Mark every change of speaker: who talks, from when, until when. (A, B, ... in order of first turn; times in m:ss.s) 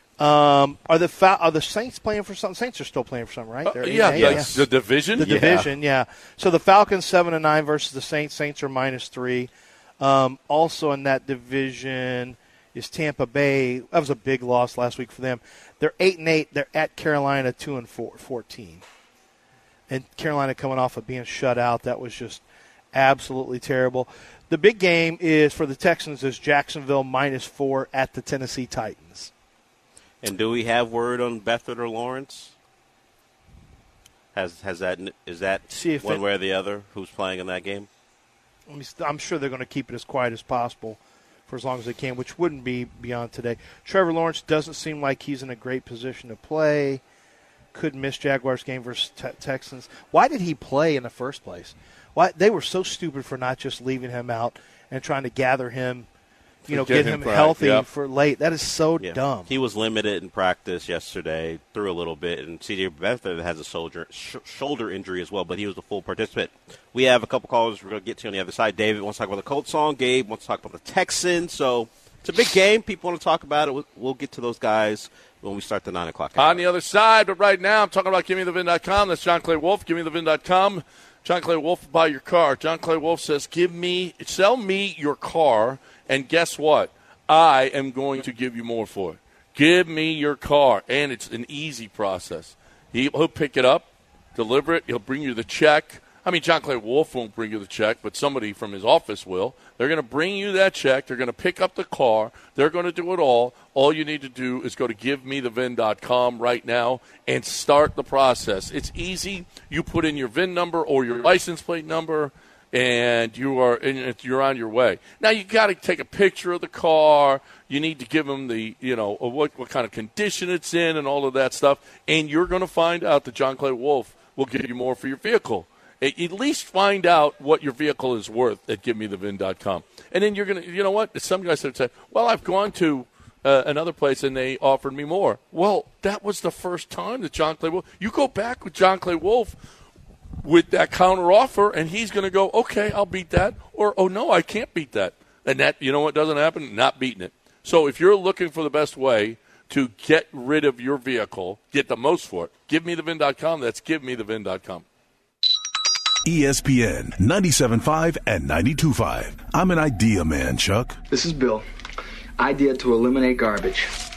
0:00.2-0:18.8 A
0:03.6-0:05.7 B
0:04.1-0:04.5 C
0:05.2-0:05.6 C
0:19.9-0:29.3 A
0:30.2-0:32.5 C
0:34.3-0:37.9 C
0:35.7-0:36.2 A
0:38.7-0:47.0 A
0:47.7-0:56.1 A
0:56.6-0:59.5 A
0:56.7-0:57.8 B
0:59.0-1:16.6 C
1:16.4-2:19.6 B
2:20.4-2:34.8 B
2:36.2-2:41.0 D
2:41.1-2:41.7 E
2:42.4-2:43.9 E